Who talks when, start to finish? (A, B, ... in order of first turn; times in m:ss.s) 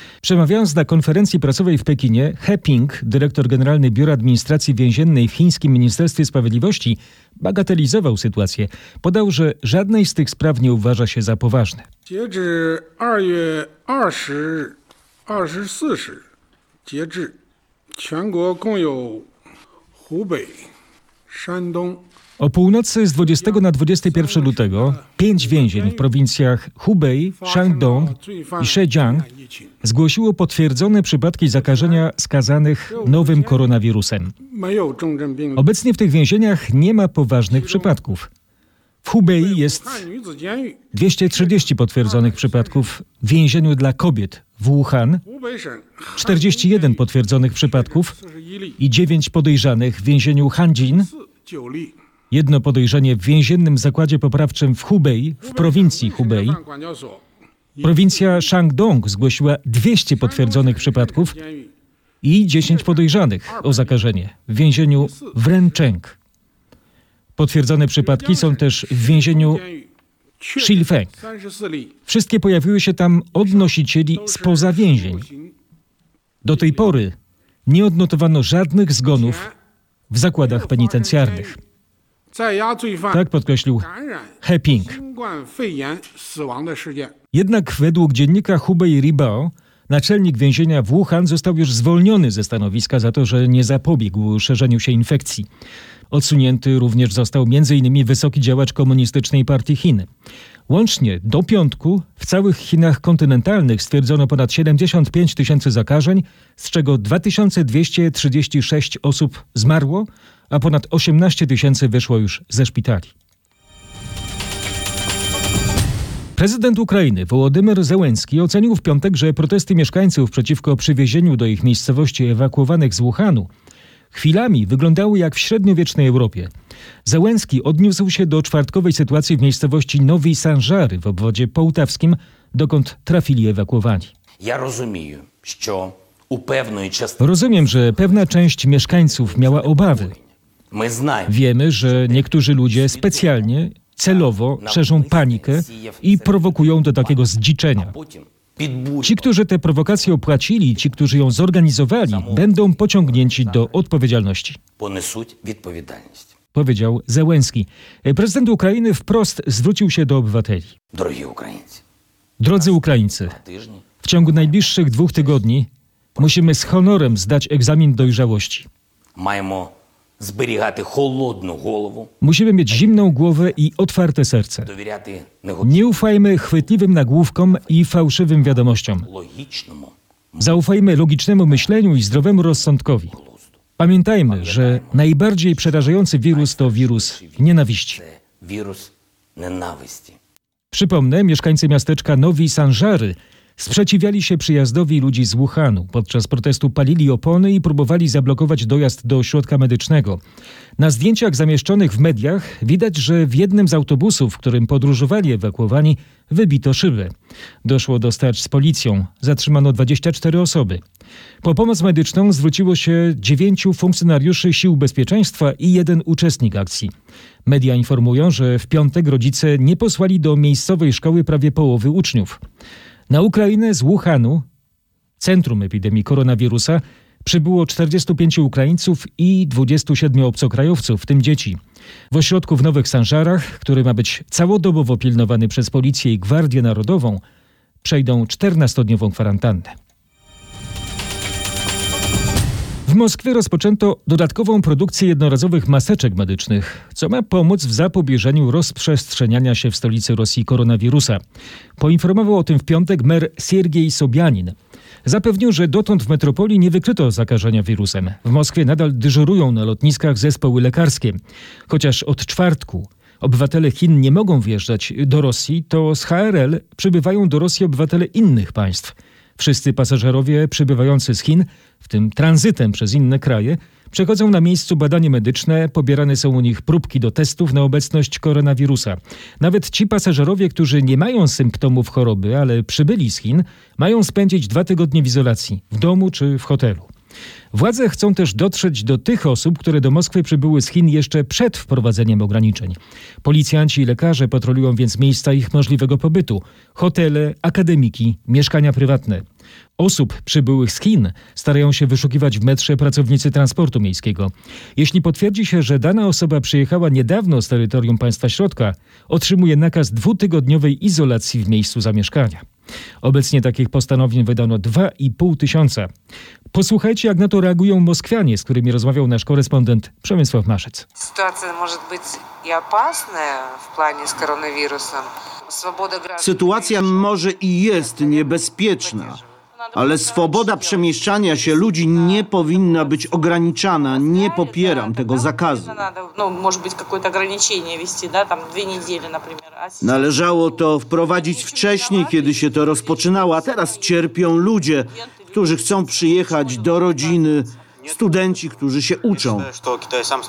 0:00.2-0:11.8 A
0:12.1-0:14.7 B
0:15.3-0:16.2 B
0:16.8-0:17.3 B
0:18.0-0:19.3 B
0:20.0-0:20.7 B
0:21.3-0:22.0 B
0:22.4-0:29.2 A
0:23.2-0:26.0 B
0:27.4-0:29.7 B
0:29.8-0:34.3 A
0:31.5-0:32.1 B
0:32.9-0:33.6 B
0:34.4-0:35.7 B
0:35.6-0:38.3 A
0:37.5-0:38.0 B
0:39.0-0:40.0 A
0:39.3-0:42.9 B
0:40.9-0:45.2 A
0:45.2-0:48.8 B
0:46.2-0:48.1 A
0:48.8-0:51.1 A
0:50.8-0:51.9 B
0:52.3-0:56.6 A
0:55.4-0:57.2 B
0:57.8-0:58.5 B
0:57.8-1:01.4 A
1:00.2-1:01.7 B
1:02.2-1:06.2 A
1:02.6-1:04.0 B
1:04.8-1:05.8 B
1:07.4-1:09.6 A
1:08.0-1:09.9 B
1:10.4-1:11.9 B
1:10.6-1:11.1 A
1:12.0-1:15.2 A
1:13.4-1:15.5 B
1:16.4-1:17.1 A
1:16.5-1:16.8 B
1:17.7-1:19.4 A
1:19.1-1:19.5 B
1:20.1-1:21.6 A
1:20.4-1:21.6 B
1:22.3-1:23.3 B
1:23.1-1:23.9 A
1:23.8-1:27.1 B
1:24.4-1:25.0 A
1:27.3-1:35.4 A
1:36.1-1:40.1 A
1:40.7-1:53.1 A
1:56.4-2:03.5 A
2:04.1-2:06.5 A
2:07.0-2:14.1 A
2:14.4-2:23.5 C
2:17.2-2:20.1 A
2:21.3-2:27.9 A
2:24.0-2:29.3 C
2:29.0-2:34.6 A
2:30.7-2:31.4 C
2:32.0-2:33.7 C
2:34.8-2:36.3 C
2:36.5-2:40.7 A
2:40.9-2:41.8 C
2:42.4-2:43.4 A
2:42.5-2:45.4 C
2:44.0-2:45.7 A
2:46.2-2:48.7 A
2:49.2-2:52.1 C
2:52.2-2:54.7 A
2:54.6-2:56.0 C
2:55.6-2:59.1 A
2:59.0-3:00.5 C
3:00.4-3:03.2 A
3:03.1-3:03.5 C
3:03.8-3:08.0 A
3:04.3-3:10.2 C
3:10.7-3:20.2 A
3:20.8-3:27.1 A
3:27.6-3:30.8 A
3:31.4-3:36.9 A
3:37.4-3:42.4 A
3:43.1-3:44.4 A
3:45.2-3:51.6 A
3:52.1-3:57.2 A
3:57.8-3:59.7 A
4:02.8-4:11.2 A
4:11.8-4:21.2 A
4:21.7-4:46.9 A
4:47.5-4:59.2 A
4:59.8-5:12.4 A
5:13.0-5:15.9 A
5:16.5-5:20.8 A
5:21.0-5:26.9 D
5:26.2-5:29.2 E
5:28.8-5:33.0 D
5:29.7-5:35.8 E
5:33.9-5:40.0 D
5:39.8-5:49.6 E
5:41.1-5:43.9 D
5:45.0-5:47.2 D